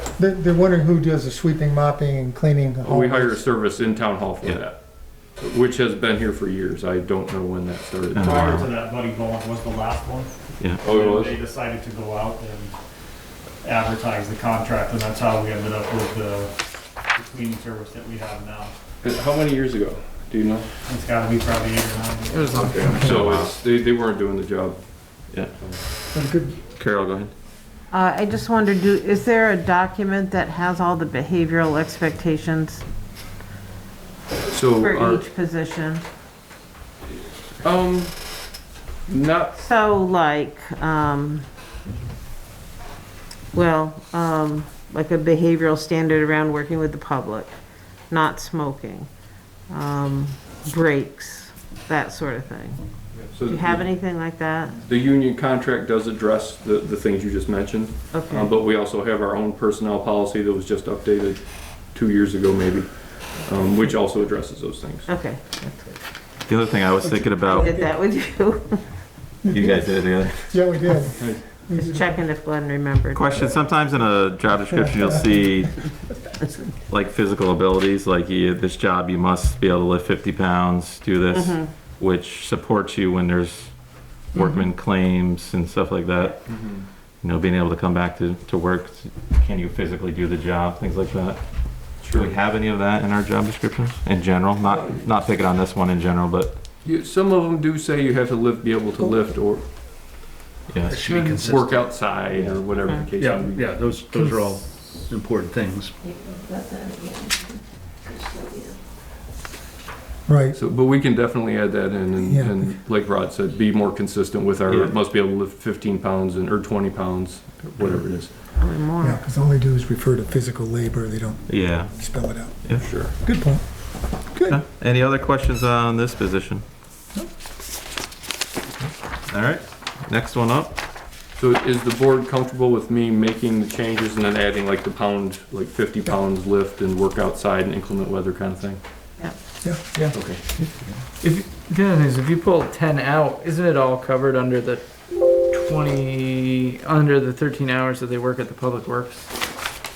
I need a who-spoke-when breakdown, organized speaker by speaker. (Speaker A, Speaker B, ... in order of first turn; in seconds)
Speaker A: 0.1-3.5, 22.9-23.2, 26.1-26.6, 67.0-67.9, 69.4-72.2, 110.3-110.6, 112.2-112.8, 119.0-124.6
Speaker B: 2.8-8.7, 10.8-11.4, 19.0-20.7, 22.8-25.8, 34.5-35.2, 37.6-39.5, 53.1-53.9, 54.8-65.1, 71.2-71.4, 86.5-86.9, 92.0-92.3, 96.8-99.7, 101.3-103.8, 110.5-118.3, 122.8-123.2, 131.4-138.8, 140.1-140.6
Speaker C: 4.4-4.7, 8.1-8.7, 10.6-10.8, 22.9-23.6, 26.8-27.3, 66.5-67.8, 69.5-70.6, 73.1-76.2, 76.9-96.6, 100.7-101.0, 102.2-102.7, 114.7-115.0, 121.5-122.9, 124.5-126.7, 128.8-130.8
Speaker D: 8.3-12.8, 13.6-18.8, 20.9-22.5
Speaker E: 22.3-23.2, 84.3-84.7, 101.0-101.5, 104.0-104.6, 139.9-149.8
Speaker F: 27.9-32.8, 34.8-36.0, 39.5-41.5, 43.5-49.1, 49.7-52.9, 53.4-54.8, 58.1-58.5, 65.1-66.0, 67.4-68.9, 71.8-73.3, 81.3-81.7, 102.8-103.1, 106.0-108.7, 118.6-119.2
Speaker G: 100.9-102.0, 103.2-106.0